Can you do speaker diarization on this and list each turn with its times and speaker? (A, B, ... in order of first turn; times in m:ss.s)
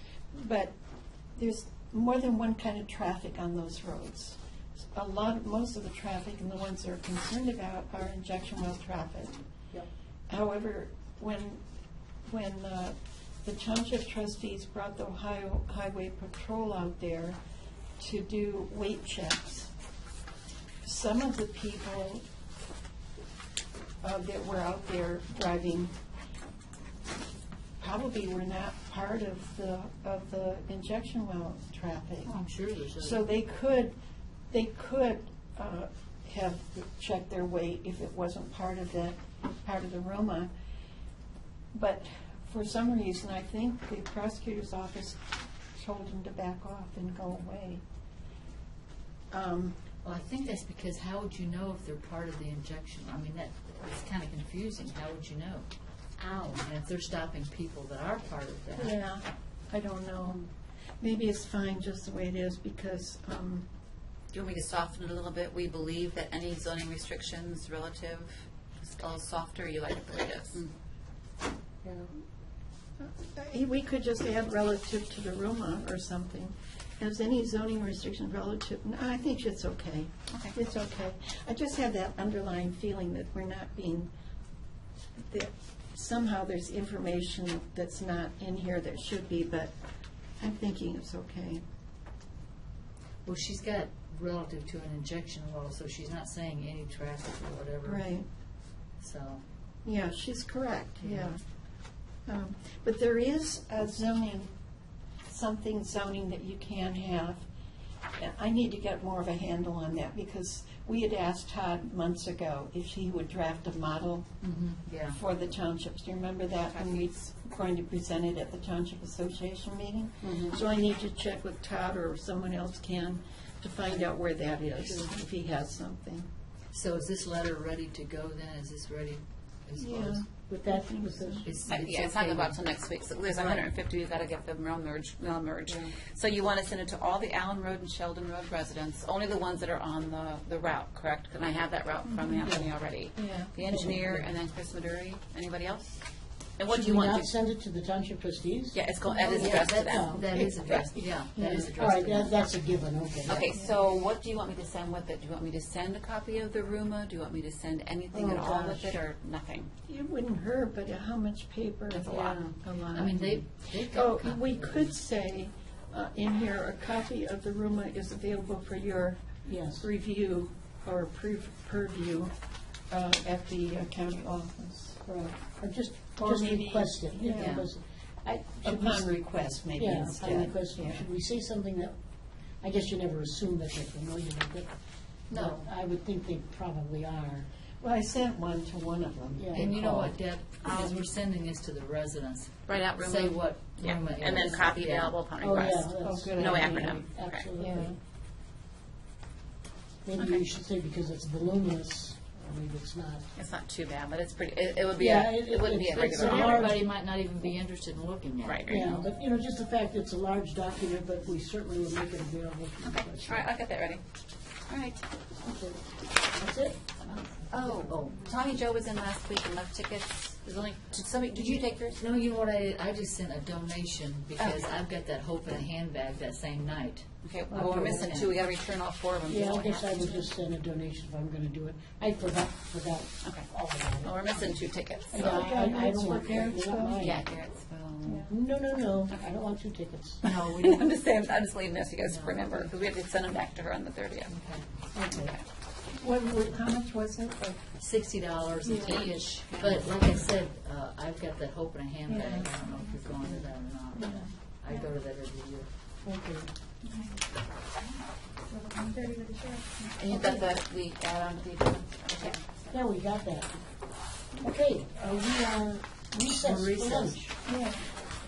0:00.3-0:00.7 A
0:01.4-0:04.4 A
0:04.9-0:09.4 A
0:10.3-0:11.6 A
0:12.3-0:17.4 A
0:18.0-0:19.7 A
0:20.8-0:22.2 A
0:24.0-0:25.9 A
0:27.8-0:32.4 A
0:32.2-0:33.3 B
0:33.0-0:33.9 A
0:34.5-0:40.5 A
0:41.7-0:45.2 A
0:45.7-0:47.8 A
0:49.3-0:49.8 A
0:50.0-0:55.6 B
0:56.2-0:58.9 B
0:58.8-1:00.4 A
1:01.0-1:03.7 A
1:04.3-1:10.7 C
1:11.8-1:12.1 D
1:13.0-1:24.1 A
1:25.2-1:29.7 A
1:30.4-1:31.6 A
1:33.2-1:38.0 B
1:37.8-1:38.2 A
1:39.0-1:39.4 B
1:39.8-1:41.4 A
1:41.0-1:41.3 B
1:42.3-1:44.5 A
1:45.2-1:47.5 A
1:48.2-1:54.3 A
1:54.4-1:55.2 B
1:55.2-2:06.3 A
2:00.2-2:00.6 D
2:06.7-2:10.2 B
2:09.8-2:11.5 A
2:10.5-2:11.5 D
2:11.4-2:12.6 B
2:11.7-2:26.0 C
2:13.3-2:13.6 B
2:22.4-2:22.7 D
2:23.2-2:23.5 A
2:23.6-2:24.3 D
2:26.6-2:27.3 C
2:26.7-2:28.8 D
2:28.7-2:31.0 C
2:29.2-2:32.4 B
2:29.3-2:30.3 D
2:31.3-2:33.5 D
2:33.3-2:39.7 C
2:38.1-2:39.0 D
2:39.9-2:49.2 A
2:41.9-2:42.5 C
2:42.9-2:45.0 B
2:49.4-2:49.9 D
2:49.8-2:52.3 A
2:52.9-2:55.0 A
2:55.0-2:59.1 D
2:56.2-2:57.6 A
2:57.3-2:57.7 B
2:58.6-3:01.0 A
2:59.8-3:01.9 D
3:02.6-3:04.7 D
3:05.3-3:07.5 D
3:07.8-3:10.2 A
3:09.4-3:09.7 D
3:09.5-3:15.2 B
3:10.6-3:11.0 C
3:12.7-3:17.4 C
3:15.4-3:18.0 D
3:16.0-3:17.0 A
3:17.6-3:18.0 A
3:20.0-3:23.2 D
3:20.2-3:20.4 C
3:23.4-3:26.7 C
3:25.0-3:26.9 D
3:25.9-3:29.0 B
3:28.4-3:28.9 C
3:28.7-3:33.5 D
3:33.2-3:34.0 C
3:34.7-3:35.0 C
3:35.4-3:35.8 D
3:36.3-3:36.8 D
3:37.5-3:42.0 C
3:37.8-3:38.2 B
3:41.3-3:48.4 B
3:47.2-3:50.2 C
3:47.5-3:48.1 D
3:49.3-3:54.6 D
3:54.0-3:55.4 C
3:55.1-3:57.2 D
3:55.1-3:57.1 A
3:57.0-3:58.3 C
3:58.3-4:00.2 D
4:00.2-4:04.3 C
4:00.3-4:00.9 B
4:02.0-4:02.7 B
4:04.2-4:04.6 B
4:05.0-4:05.3 D
4:05.1-4:05.4 C
4:05.8-4:07.7 A
4:07.8-4:15.7 B
4:08.6-4:09.0 A
4:08.8-4:10.0 C
4:12.1-4:12.7 A
4:13.9-4:14.3 A
4:16.0-4:16.5 D
4:16.8-4:17.1 A
4:18.5-4:20.4 A
4:20.0-4:22.4 C
4:22.7-4:23.6 D
4:24.4-4:27.3 D
4:26.2-4:27.3 B
4:27.4-4:27.9 A